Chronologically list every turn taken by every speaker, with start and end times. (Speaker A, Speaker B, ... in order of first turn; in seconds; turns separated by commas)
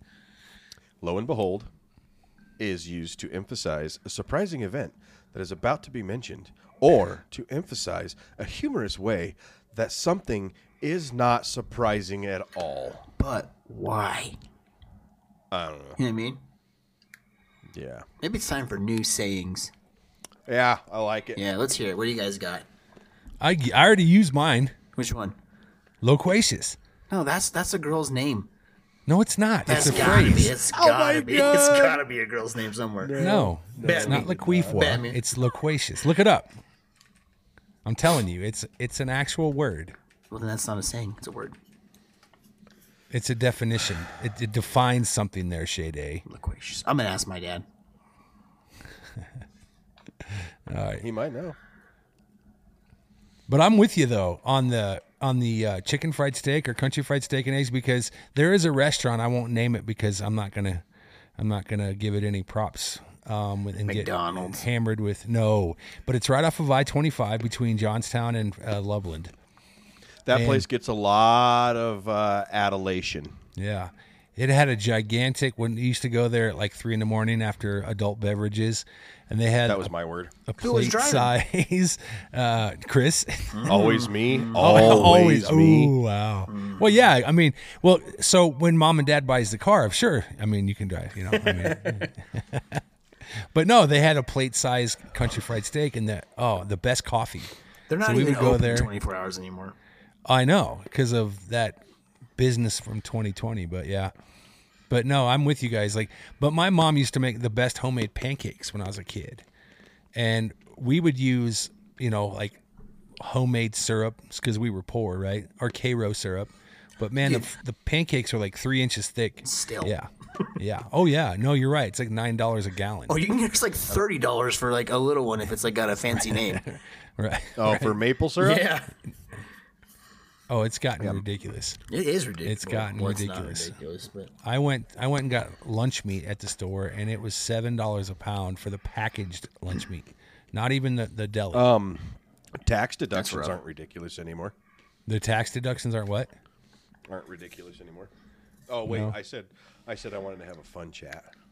Speaker A: 1.0-1.7, Speaker A: 2.6-13.1, Speaker B: 13.2-14.4, Speaker A: 15.5-16.0, Speaker B: 16.0-16.4, Speaker A: 17.7-18.1, Speaker B: 18.2-19.7, Speaker A: 20.5-21.4, Speaker B: 21.4-22.6, Speaker C: 23.4-24.8, Speaker B: 24.9-25.4, Speaker C: 26.0-26.8, Speaker B: 27.1-28.5, Speaker C: 29.1-30.6, Speaker B: 29.7-33.2, Speaker A: 29.9-32.0, Speaker A: 33.0-35.0, Speaker C: 33.2-36.5, Speaker B: 33.8-35.2, Speaker C: 37.9-40.0, Speaker B: 40.3-41.5, Speaker C: 43.1-46.2, Speaker B: 46.2-47.6, Speaker C: 50.3-51.0, Speaker A: 51.0-51.6, Speaker C: 53.5-60.8, Speaker C: 61.4-69.3, Speaker B: 63.9-64.7, Speaker A: 70.2-73.3, Speaker C: 70.3-70.7, Speaker C: 73.5-79.9, Speaker A: 79.7-80.3, Speaker C: 80.5-83.8, Speaker B: 80.6-81.3, Speaker B: 83.5-85.1, Speaker A: 83.7-85.9, Speaker C: 84.5-92.8, Speaker B: 86.5-87.0, Speaker B: 91.6-91.9, Speaker C: 93.4-98.9, Speaker B: 97.9-99.8, Speaker C: 100.2-101.8, Speaker C: 102.4-104.1, Speaker C: 104.9-109.4, Speaker C: 110.1-112.6, Speaker C: 113.2-123.2, Speaker B: 117.2-117.5, Speaker B: 119.4-119.9, Speaker B: 123.1-126.6, Speaker C: 126.2-128.0, Speaker A: 127.6-128.7, Speaker B: 128.4-128.9, Speaker C: 130.5-131.8, Speaker B: 131.9-134.3, Speaker C: 132.4-133.8, Speaker C: 134.4-141.7, Speaker A: 141.5-144.5, Speaker B: 143.1-143.6, Speaker C: 145.1-146.3, Speaker A: 147.1-148.1, Speaker A: 148.7-151.3, Speaker C: 148.9-149.2